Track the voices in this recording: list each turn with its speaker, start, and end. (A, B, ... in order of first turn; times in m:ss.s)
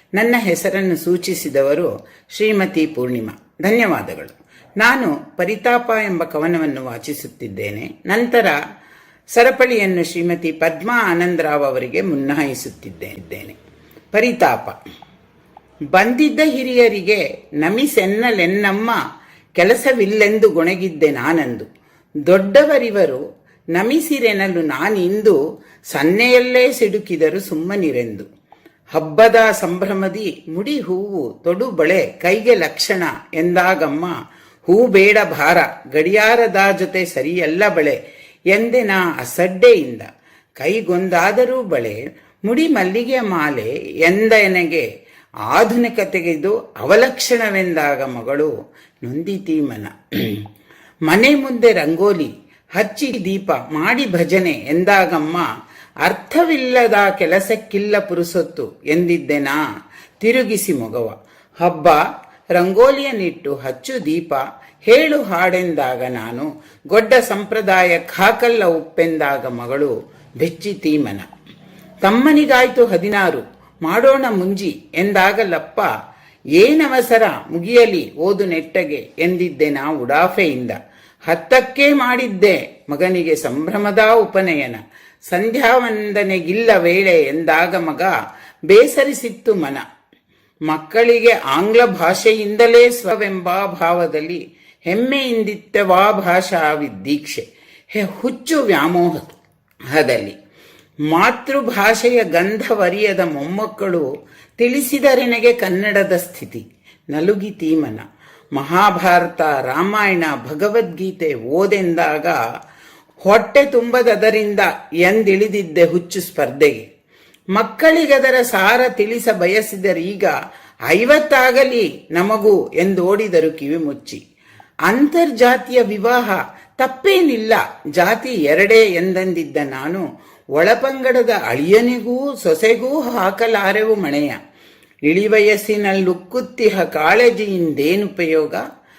0:00.2-0:08.6 A
0:09.4-0:13.6 A
0:14.1-0:14.8 A
0:16.0-0:19.0 A
0:19.6-0:21.7 A
0:22.3-0:23.2 A
0:23.8-0:25.4 A
0:25.9-0:28.3 A
0:29.0-0:34.1 A
0:34.7-0:38.0 A
0:38.5-0:40.1 A
0:40.6-0:44.8 A
0:45.5-0:50.4 A
0:51.1-0:55.5 A
0:56.0-0:59.6 A
1:00.2-1:02.0 A
1:02.6-1:11.3 A
1:12.0-1:15.9 A
1:16.6-1:28.1 A
1:28.7-1:29.8 A
1:30.7-1:37.4 A
1:37.9-1:39.4 A
1:39.9-1:40.4 A
1:41.1-1:44.0 A
1:44.6-1:52.4 A
1:53.2-1:56.8 A
1:57.6-2:00.3 A
2:00.9-2:04.2 A
2:04.9-2:10.0 A
2:10.6-2:14.4 A
2:15.1-2:18.6 A